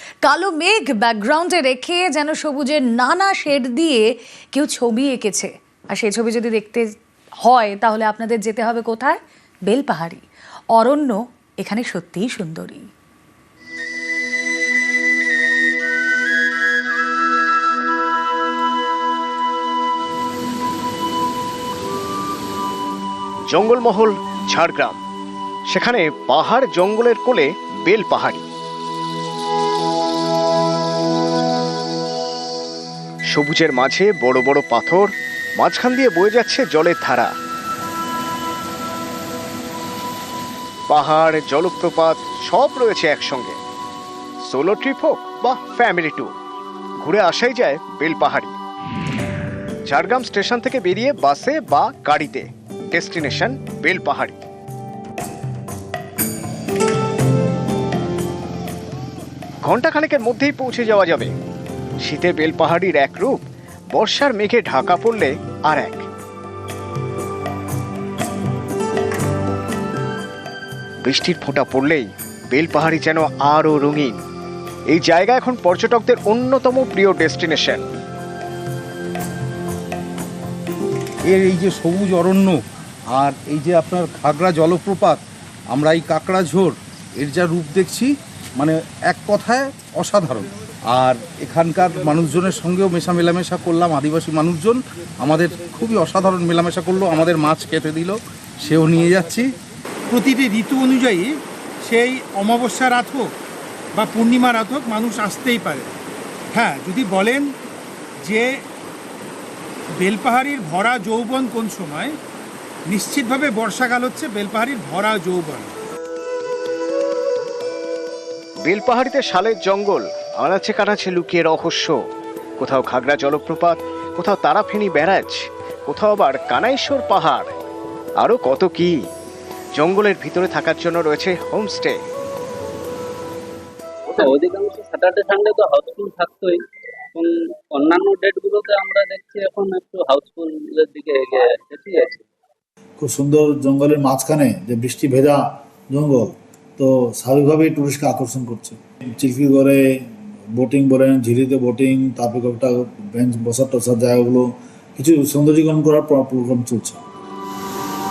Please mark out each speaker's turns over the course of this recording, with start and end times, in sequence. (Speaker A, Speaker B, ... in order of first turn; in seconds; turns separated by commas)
Speaker A: 0.2-6.9, Speaker A: 7.4-10.2, Speaker A: 10.8-12.9, Speaker B: 23.5-25.0, Speaker B: 25.7-28.4, Speaker B: 33.3-37.3, Speaker B: 40.9-43.6, Speaker B: 44.5-46.3, Speaker B: 47.0-48.5, Speaker B: 49.9-54.4, Speaker B: 59.6-61.3, Speaker B: 62.0-63.4, Speaker B: 63.9-66.1, Speaker B: 71.0-74.2, Speaker B: 74.9-77.8, Speaker C: 81.3-82.6, Speaker C: 83.1-85.2, Speaker C: 85.7-99.5, Speaker D: 100.1-103.3, Speaker D: 104.0-105.9, Speaker D: 106.5-107.5, Speaker D: 108.2-108.6, Speaker D: 110.0-112.2, Speaker D: 112.9-115.7, Speaker B: 118.7-122.0, Speaker B: 122.6-127.5, Speaker B: 128.2-129.0, Speaker B: 129.8-132.0, Speaker E: 134.1-136.6, Speaker E: 137.2-142.3, Speaker F: 143.0-149.8, Speaker F: 150.6-154.5, Speaker F: 155.0-157.0